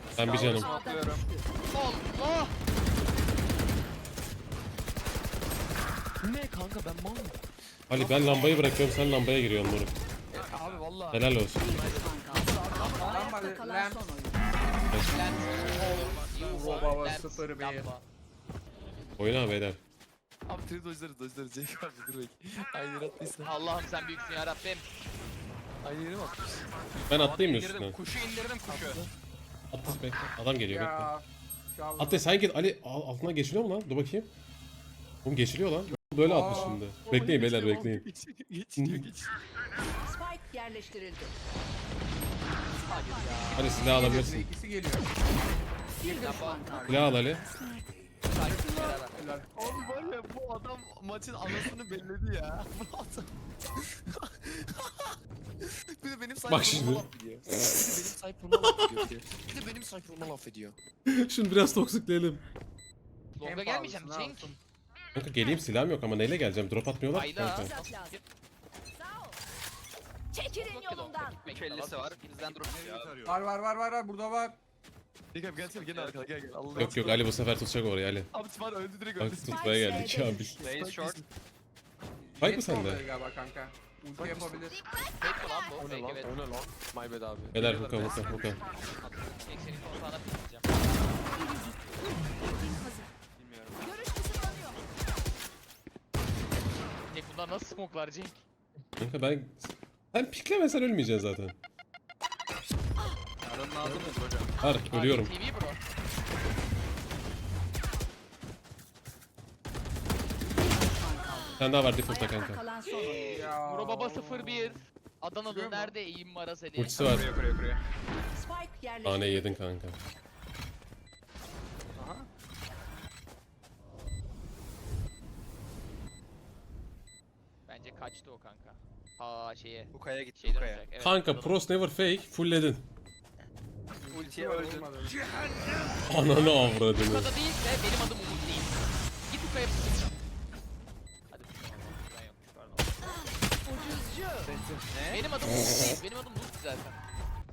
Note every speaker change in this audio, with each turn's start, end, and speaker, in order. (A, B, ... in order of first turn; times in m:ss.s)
0:00.2-0:00.7 A
0:00.2-0:01.2 B
0:00.2-0:01.5 C
0:01.7-0:02.5 D
0:06.2-0:07.4 E
0:07.9-0:09.9 A
0:08.0-0:08.6 E
0:10.3-0:13.4 E
0:11.1-0:11.7 A
0:11.5-0:14.4 C
0:13.0-0:14.1 F
0:14.9-0:15.2 A
0:15.1-0:18.0 D
0:16.1-0:17.9 F
0:19.2-0:19.8 A
0:20.5-0:23.5 E
0:23.4-0:24.8 D
0:25.8-0:26.7 E
0:27.1-0:28.0 A
0:27.1-0:29.0 B
0:28.7-0:29.1 E
0:29.7-0:31.1 A
0:30.7-0:32.2 F
0:32.0-0:34.3 A
0:35.2-0:38.0 A
0:36.2-0:36.9 F
0:36.9-0:39.4 E
0:38.8-0:39.1 A
0:40.0-0:41.4 C
0:42.5-0:44.3 C
0:42.8-0:44.0 D
0:43.5-0:44.5 A
0:43.8-0:45.1 F
0:46.0-0:47.9 C
0:46.0-0:47.1 D
0:46.8-0:47.4 A
0:48.3-0:50.2 D
0:48.5-0:49.5 F
0:49.5-1:00.8 E
0:56.5-0:58.0 A
0:58.5-0:59.1 A
1:01.1-1:02.4 A
1:03.4-1:04.5 D
1:03.4-1:04.6 F
1:05.1-1:07.7 A
1:07.1-1:08.2 D
1:07.4-1:08.2 C
1:08.9-1:09.4 C
1:10.3-1:11.5 C
1:10.5-1:12.6 D
1:11.5-1:13.3 B
1:13.2-1:14.6 F
1:15.3-1:17.3 E
1:15.7-1:16.2 B
1:16.7-1:18.3 A
1:18.3-1:20.0 E
1:19.2-1:20.6 A
1:19.4-1:20.8 C
1:20.6-1:21.2 B
1:20.7-1:21.2 E
1:22.2-1:24.8 F
1:22.4-1:23.0 A
1:24.2-1:24.7 E
1:25.2-1:26.3 D
1:25.8-1:28.6 E
1:27.5-1:28.6 A
1:29.0-1:29.6 B
1:29.4-1:30.7 D
1:31.2-1:33.1 C
1:33.4-1:34.3 B
1:33.8-1:34.8 C
1:37.1-1:38.4 D
1:39.0-1:41.5 A
1:43.4-1:44.5 B
1:44.6-1:45.3 A
1:44.9-1:45.8 D
1:50.5-1:53.6 C
1:51.6-1:52.6 A
1:53.2-1:54.8 F
1:53.6-1:57.1 D
1:55.4-1:55.9 F
1:56.8-1:57.3 A
1:57.0-1:57.8 B
1:58.3-1:59.6 C
1:59.0-2:00.0 A
2:02.0-2:02.3 B
2:07.7-2:11.6 D
2:09.9-2:10.8 B
2:11.0-2:12.8 A
2:14.0-2:15.2 F
2:14.1-2:14.9 B
2:16.0-2:17.3 A
2:16.8-2:18.8 D
2:19.3-2:20.2 D
2:21.3-2:23.2 D
2:23.1-2:24.6 C
2:24.4-2:24.9 E
2:24.9-2:25.2 B
2:25.1-2:27.0 D